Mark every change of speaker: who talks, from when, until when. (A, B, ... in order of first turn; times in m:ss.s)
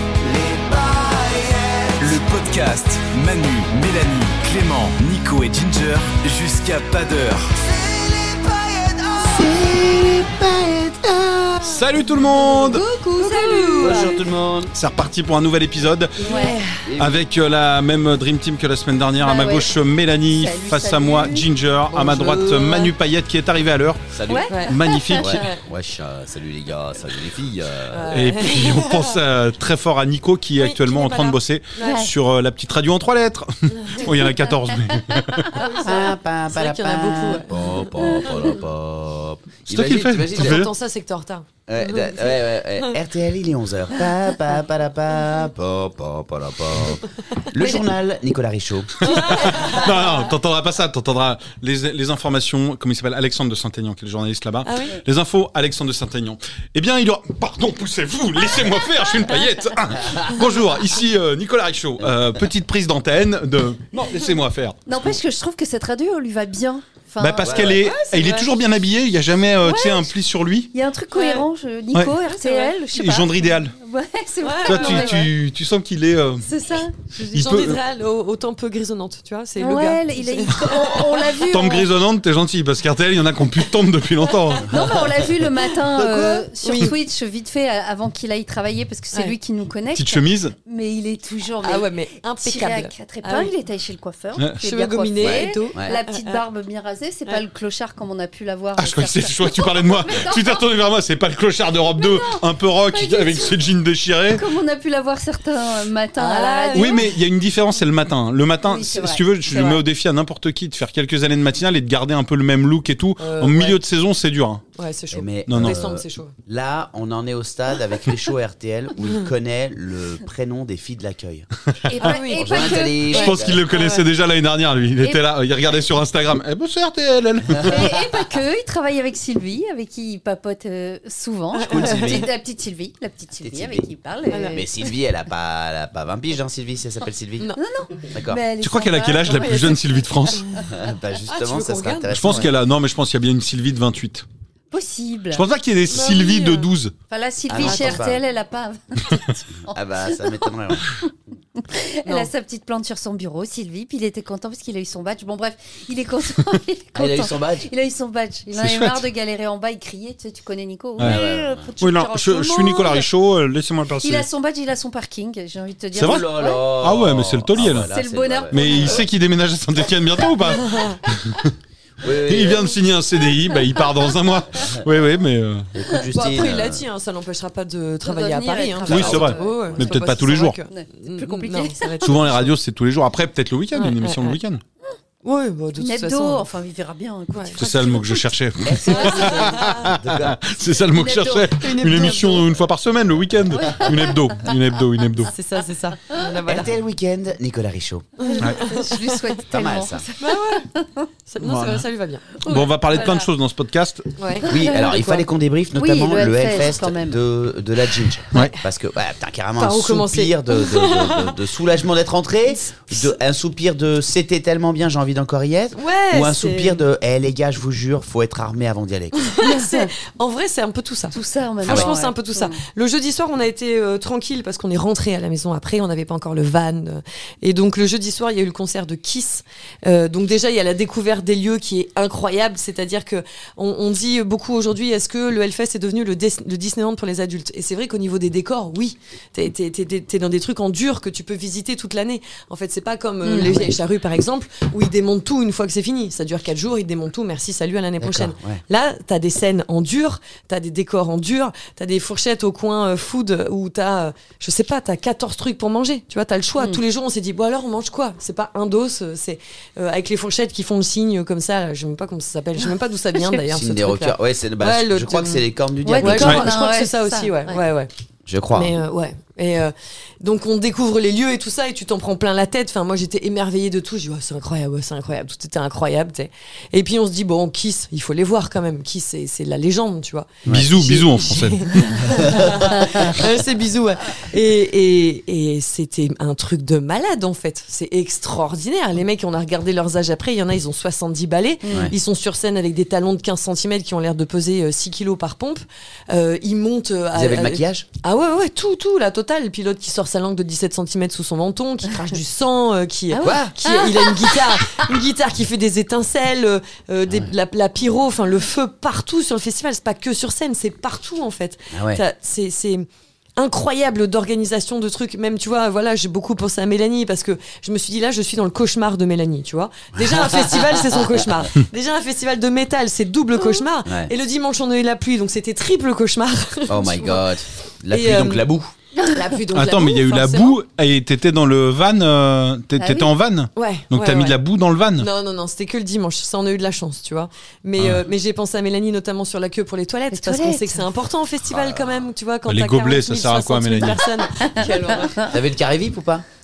0:00.2-0:02.1 A
0:02.0-0:07.6 B
0:07.6-0:11.8 A
0:11.6-0:12.8 C
0:12.4-0:14.1 D
0:13.2-0:14.2 E
0:13.8-0:14.7 A
0:14.7-0:16.2 C
0:16.2-0:16.8 E
0:16.2-0:16.6 D
0:16.8-0:17.2 A
0:17.0-0:24.1 C
0:19.2-0:19.7 D
0:20.3-0:21.5 D
0:21.9-0:22.9 E
0:24.1-0:24.6 A
0:24.3-0:25.3 D
0:24.5-0:25.6 E
0:24.7-0:25.4 C
0:25.1-0:28.2 A
0:27.9-0:29.2 E
0:28.1-0:35.6 C
0:30.6-0:32.1 E
0:31.8-0:32.1 D
0:33.8-0:34.1 E
0:35.3-0:36.1 D
0:35.5-0:37.5 E
0:35.8-0:40.7 A
0:38.0-0:38.5 D
0:39.7-0:40.7 C
0:40.3-0:43.0 E
0:41.7-0:49.6 A
0:49.0-0:50.3 E
0:49.0-1:04.8 C
0:54.6-0:55.0 E
1:04.9-1:08.4 D
1:07.2-1:10.7 C
1:07.4-1:07.8 A
1:07.8-1:08.5 E
1:09.6-1:10.1 D
1:10.7-1:15.3 D
1:11.1-1:11.5 E
1:12.2-1:12.8 E
1:12.9-1:13.8 C
1:14.4-1:15.3 E
1:14.7-1:16.5 C
1:16.4-1:17.0 D
1:17.1-1:21.1 E
1:17.3-1:17.8 C
1:19.6-1:21.9 D
1:21.2-1:25.1 C
1:24.6-1:31.9 D
1:26.0-1:26.5 C
1:26.6-1:26.9 E
1:29.9-1:30.6 C
1:31.6-1:33.5 E
1:32.4-1:40.6 D
1:34.6-1:36.4 E
1:35.2-1:36.0 A
1:38.8-1:44.4 C
1:42.0-1:43.6 D
1:44.3-1:47.1 D
1:46.2-1:47.0 E
1:46.8-1:54.6 C
1:48.7-1:49.8 D
1:53.2-1:53.8 E
1:54.8-1:56.4 E
1:55.1-2:01.5 A
1:55.5-1:55.8 C
1:59.0-1:59.3 E
2:01.9-2:03.1 D
2:02.0-2:04.0 E
2:02.3-2:03.7 A
2:03.1-2:08.0 C
2:07.6-2:14.7 D
2:11.6-2:12.3 E
2:11.7-2:12.3 A
2:13.4-2:17.5 A
2:14.3-2:14.6 E
2:17.6-2:20.4 D
2:18.1-2:18.4 A
2:18.6-2:20.4 C
2:19.3-2:20.6 E
2:20.7-2:22.5 A
2:21.3-2:22.4 E
2:22.1-2:24.2 C
2:24.7-2:25.4 D
2:25.3-2:26.9 C
2:25.9-2:26.7 E
2:27.1-2:30.5 D
2:27.5-2:28.2 A
2:27.6-2:28.0 E
2:29.7-2:30.9 A
2:31.6-2:43.1 D
2:32.0-2:32.3 E
2:37.0-2:37.7 A
2:38.6-2:39.1 C
2:41.0-2:41.2 C
2:41.0-2:41.7 A
2:41.8-2:44.3 C
2:44.0-2:46.7 D
2:45.9-2:46.3 C
2:46.0-2:49.1 A
2:46.8-2:47.9 C
2:47.6-2:49.1 D
2:48.5-2:51.5 C
2:50.6-2:51.0 E
2:52.0-2:52.8 A
2:52.2-2:55.7 C
2:54.6-2:54.9 A
2:55.7-2:56.9 A
2:56.1-3:02.5 E
2:58.0-2:59.5 D
2:58.9-3:00.6 C
2:59.0-2:59.9 A
3:00.6-3:02.1 D
3:02.0-3:04.6 C
3:03.7-3:04.4 E
3:05.2-3:06.5 E
3:05.8-3:09.8 D
3:07.3-3:07.6 E
3:07.6-3:15.3 C
3:08.7-3:10.4 A
3:09.5-3:09.8 E
3:10.9-3:11.6 D
3:11.6-3:12.5 E
3:13.5-3:14.2 D
3:15.3-3:16.7 E
3:16.4-3:18.1 A
3:18.2-3:19.3 E
3:18.3-3:21.1 D
3:19.5-3:20.1 A
3:20.2-3:20.7 E
3:21.3-3:22.3 E
3:21.4-3:21.9 C
3:22.4-3:23.3 D
3:22.4-3:24.1 C
3:24.2-3:24.5 E
3:24.3-3:27.2 D
3:24.5-3:39.3 A
3:29.6-3:31.4 E
3:35.8-3:36.8 E
3:39.3-4:25.5 E
3:39.4-3:39.9 D
3:41.1-3:42.6 D
3:41.7-3:41.9 A
4:03.2-4:03.7 D
4:08.0-4:08.6 A
4:23.5-4:26.5 A
4:25.8-4:27.6 D
4:26.0-4:27.9 E
4:28.3-4:28.8 A
4:28.5-5:12.9 E
4:40.4-4:40.7 A
4:40.5-4:42.2 C
4:42.2-4:43.2 A
4:51.7-4:51.9 D
4:51.7-4:51.9 A
4:57.2-4:57.9 A
5:03.1-5:04.4 D
5:03.2-5:03.5 A
5:11.7-5:12.0 A
5:13.4-5:27.3 E
5:19.9-5:21.2 A
5:23.8-5:24.1 A
5:26.7-5:28.7 A
5:27.9-5:28.5 E
5:29.1-5:30.6 E
5:29.5-5:35.1 C
5:32.8-5:33.1 D
5:33.6-5:34.4 E
5:35.0-5:45.3 E
5:37.8-5:38.0 C
5:40.1-5:40.8 D
5:41.5-5:41.9 A
5:42.5-5:44.0 C
5:44.4-5:45.3 D
5:45.2-5:46.2 A